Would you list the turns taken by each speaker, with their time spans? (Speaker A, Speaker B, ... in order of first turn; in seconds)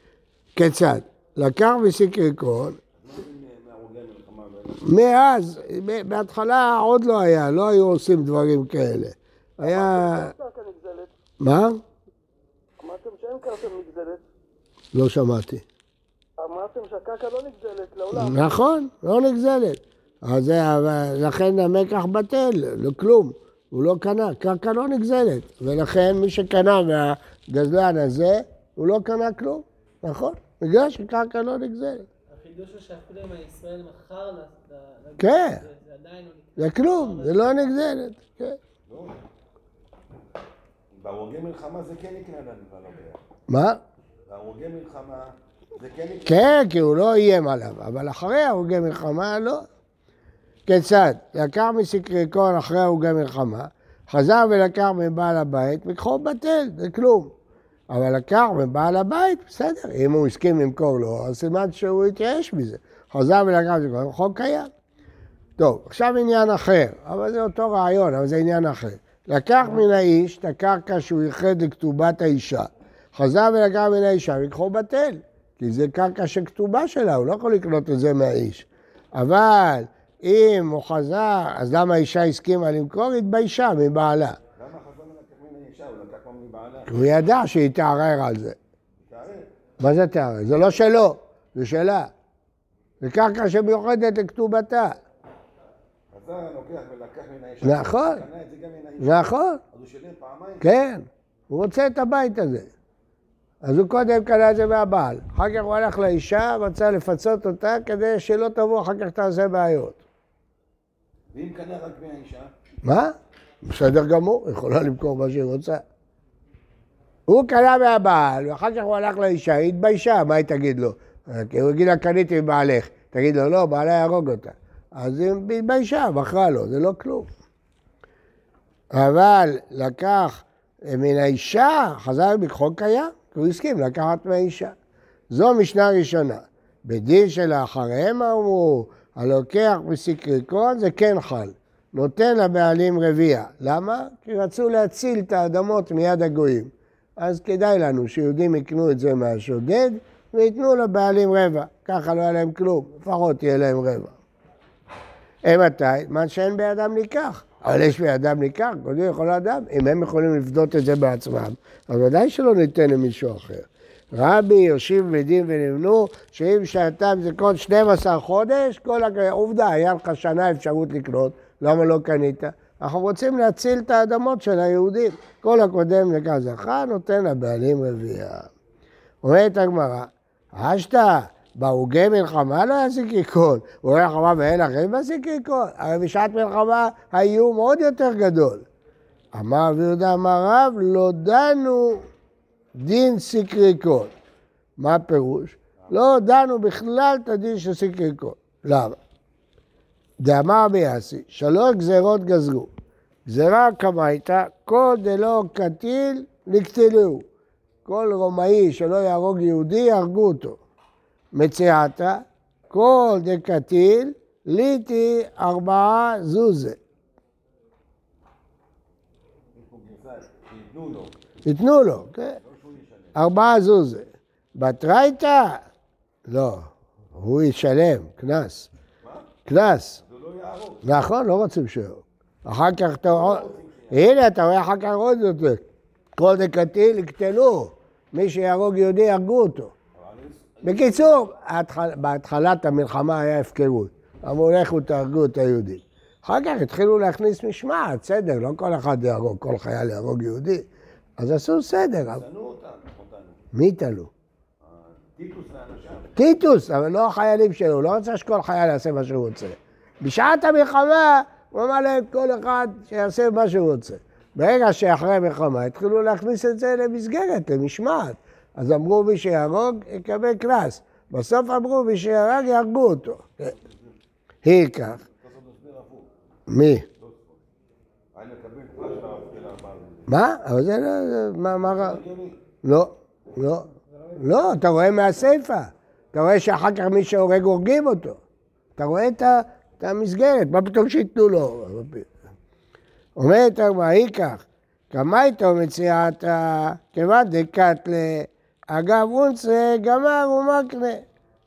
Speaker A: 0.6-2.8, 4.8-10.3, 11.4-11.8, 14.9-15.7, 18.1-32.1, 35.2-35.6, 36.6-38.6, 43.5-43.8, 46.3-49.7, 50.7-57.3, 57.9-64.7, 65.6-84.4, 86.9-88.6, 89.8-92.1, 93.0-95.0, 97.6-98.2, 99.0-99.6, 100.6-102.7, 103.6-110.0, 112.8-115.8, 117.3-127.3, 128.9-134.7, 135.3-154.2, 155.4-178.5, 179.2-188.7, 189.3-192.1, 192.8-194.1, 194.8-199.0, 200.2-202.7, 203.3-207.3, 207.8-210.6, 211.3-216.8, 221.4-222.4, 223.2-225.6, 226.3-228.7, 229.5-230.0, 230.8-235.6, 236.2-239.7, 240.6-250.7, 251.2-252.2, 253.5-254.1, 256.2-273.5, 274.4-275.0, 276.5-276.9, 280.1-282.0, 282.6-288.2, 288.8-292.1, 293.2-301.0
Speaker B: 3.0-4.9, 38.9-39.2, 41.0-43.2, 44.3-46.4, 84.5-86.9, 89.0-89.5, 96.1-100.7, 111.3-112.5, 195.8-196.0, 219.5-221.2, 222.4-223.3, 229.0-229.3, 230.0-230.9, 233.0-234.2, 239.9-241.3, 252.1-253.4, 254.6-256.2, 273.6-273.9, 275.0-276.1, 276.9-277.4, 278.1-280.1, 281.6-282.4
Speaker C: 9.6-11.1, 12.8-14.2, 16.4-18.6
Speaker D: 32.3-38.0, 283.9-284.9